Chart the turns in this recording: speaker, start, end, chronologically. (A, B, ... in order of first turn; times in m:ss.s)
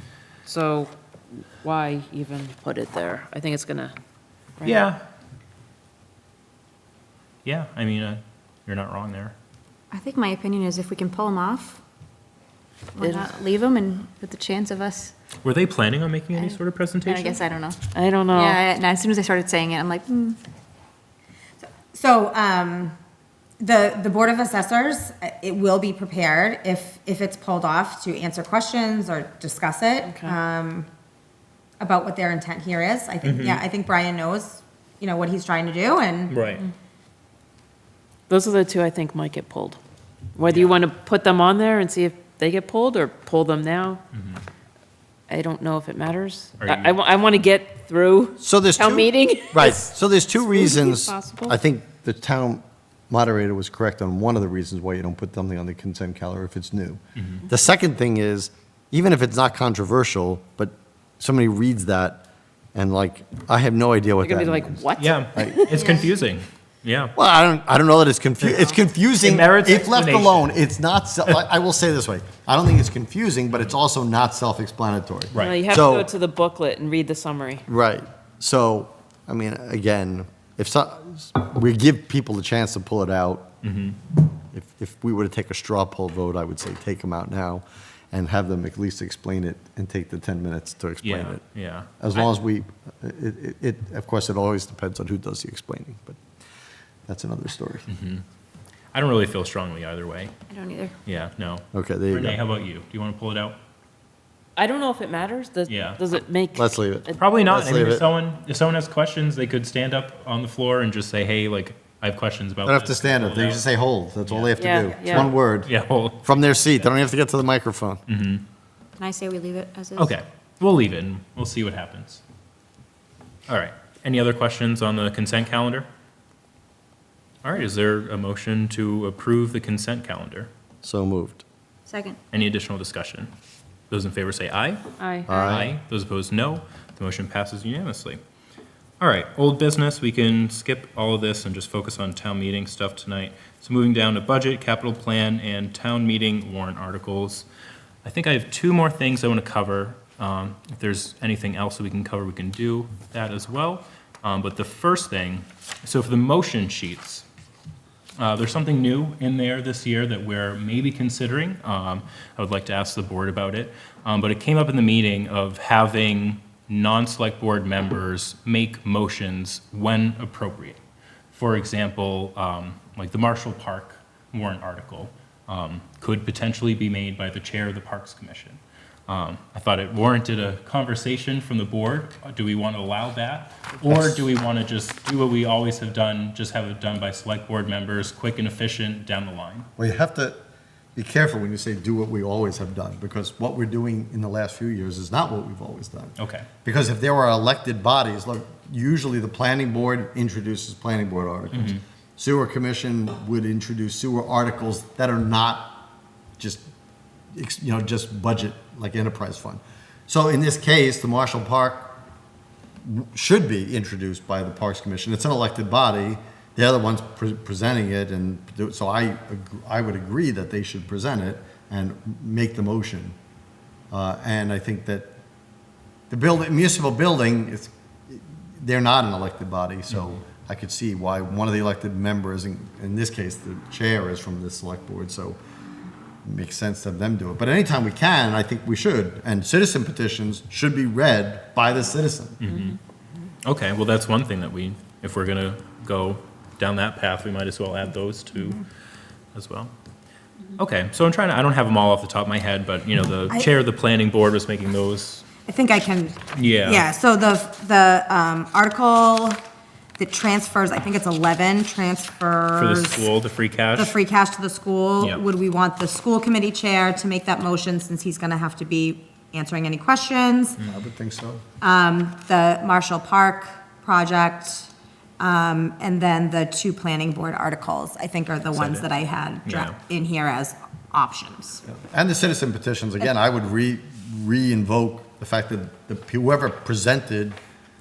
0:00.4-0:00.9 A
0:01.6-0:04.0 A
0:04.6-0:04.8 A
0:04.6-0:05.0 B
0:07.4-0:09.3 B
0:09.9-0:11.8 C
0:13.0-0:15.1 C
0:15.4-0:17.4 B
0:16.4-0:20.4 C
0:17.9-0:18.6 A
0:21.8-0:23.0 D
0:23.6-0:30.9 D
0:30.0-0:30.4 A
0:31.8-0:36.4 D
0:33.2-0:33.6 B
0:36.3-0:36.6 B
0:38.3-0:39.8 A
0:40.4-0:44.0 A
0:44.1-0:44.4 B
0:45.3-0:49.9 A
0:46.6-0:47.0 B
0:48.4-1:05.8 E
0:50.6-0:51.5 C
0:57.2-0:57.4 B
1:04.2-1:05.9 A
1:05.0-1:07.1 B
1:05.8-1:06.0 C
1:07.2-1:16.1 E
1:08.4-1:10.6 B
1:15.3-1:15.6 B
1:15.4-1:17.6 A
1:17.7-1:23.5 E
1:23.6-1:24.0 B
1:24.5-1:31.4 E
1:31.0-1:32.3 B
1:32.0-1:36.2 E
1:37.1-1:37.9 E
1:37.9-1:38.2 B
1:38.9-1:40.3 B
1:40.5-1:40.9 C
1:41.1-1:43.6 B
1:41.7-1:42.4 E
1:44.6-1:47.3 A
1:45.7-1:46.0 B
1:46.6-1:48.1 E
1:47.2-1:53.6 B
1:52.6-1:55.7 E
1:54.2-1:56.9 B
1:54.6-1:55.3 A
1:56.2-1:58.0 E
1:58.1-1:58.4 B
1:59.0-2:00.2 C
2:00.0-2:02.2 B
2:03.5-2:05.9 B
2:07.4-2:10.5 B
2:10.8-2:11.4 E
2:11.9-2:12.2 C
2:12.3-2:13.3 B
2:13.9-2:18.2 B
2:15.0-2:15.5 A
2:15.3-2:15.8 E
2:19.0-2:27.5 B
2:28.0-2:37.2 B
2:38.2-2:50.8 B
2:51.3-3:09.7 B
3:03.9-3:04.3 E
3:09.8-3:10.4 E
3:11.0-3:25.8 E
3:16.2-3:16.5 B
3:21.5-3:21.8 B
3:26.4-3:26.7 E
3:27.3-3:32.0 E
3:32.8-3:43.2 E
3:43.9-3:45.2 E
3:46.1-3:55.4 E
3:56.2-4:02.4 E
4:02.4-4:02.8 B
4:02.5-4:02.8 A
4:03.4-4:08.6 B
4:09.4-4:09.7 B
4:10.6-4:15.3 B
4:15.5-4:19.4 D
4:16.3-4:16.9 B
4:20.0-4:23.1 D
4:22.6-4:24.0 B
4:23.8-4:30.6 D
4:30.6-4:31.4 E
4:31.6-4:41.6 D
4:38.6-4:38.9 B
4:39.4-4:39.8 B
4:41.7-4:47.4 E